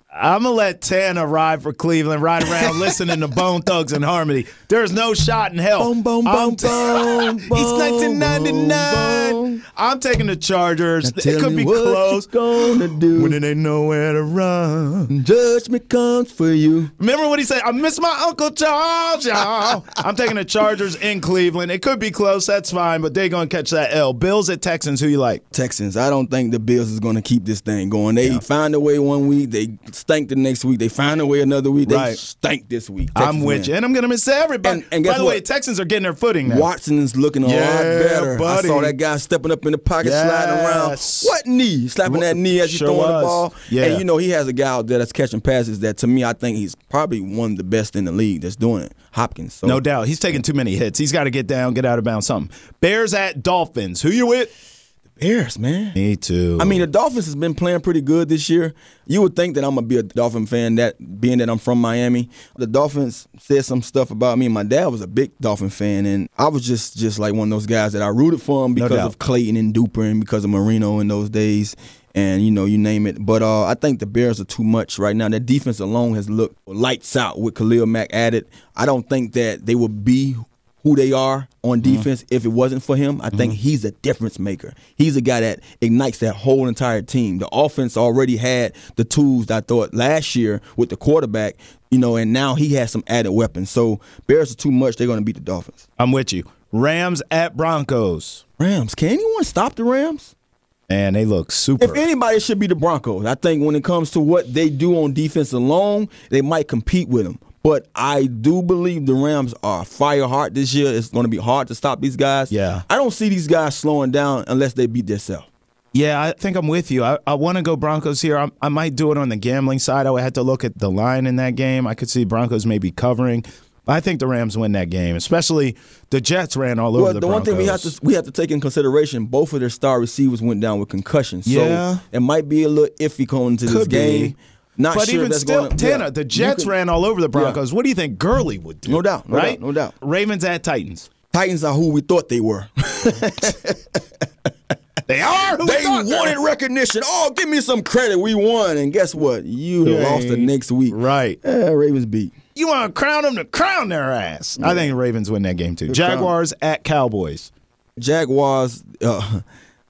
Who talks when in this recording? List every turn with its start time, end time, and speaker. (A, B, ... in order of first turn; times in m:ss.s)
0:00.1-0:15.1 A
0:02.6-0:02.9 B
0:05.8-0:09.6 B
0:11.0-0:13.4 B
0:15.1-0:16.9 B
0:17.0-0:25.4 A
0:25.5-0:33.7 B
0:31.8-0:32.2 A
0:33.1-0:36.7 A
0:34.6-0:35.4 B
0:36.4-0:49.8 B
0:37.4-0:38.9 A
0:40.0-0:41.3 A
0:42.0-0:44.0 A
0:49.6-0:54.5 A
0:55.2-0:56.0 B
0:56.0-0:56.8 A
0:56.6-1:35.8 B
1:08.8-1:09.1 A
1:36.0-1:38.4 A
1:38.6-1:40.3 B
1:40.9-1:42.0 A
1:41.8-1:55.5 B
1:52.5-1:52.8 A
1:55.9-2:07.9 A
2:06.9-2:16.7 B
2:11.4-2:12.0 A
2:13.6-2:14.4 A
2:14.9-2:21.1 A
2:17.3-2:17.6 B
2:18.9-2:19.9 B
2:21.3-2:23.8 B
2:25.1-2:26.4 A
2:25.6-2:32.3 B
2:29.8-2:31.4 A
2:32.5-2:37.5 A
2:34.6-2:34.9 B
2:35.9-2:36.3 B
2:38.0-2:39.4 B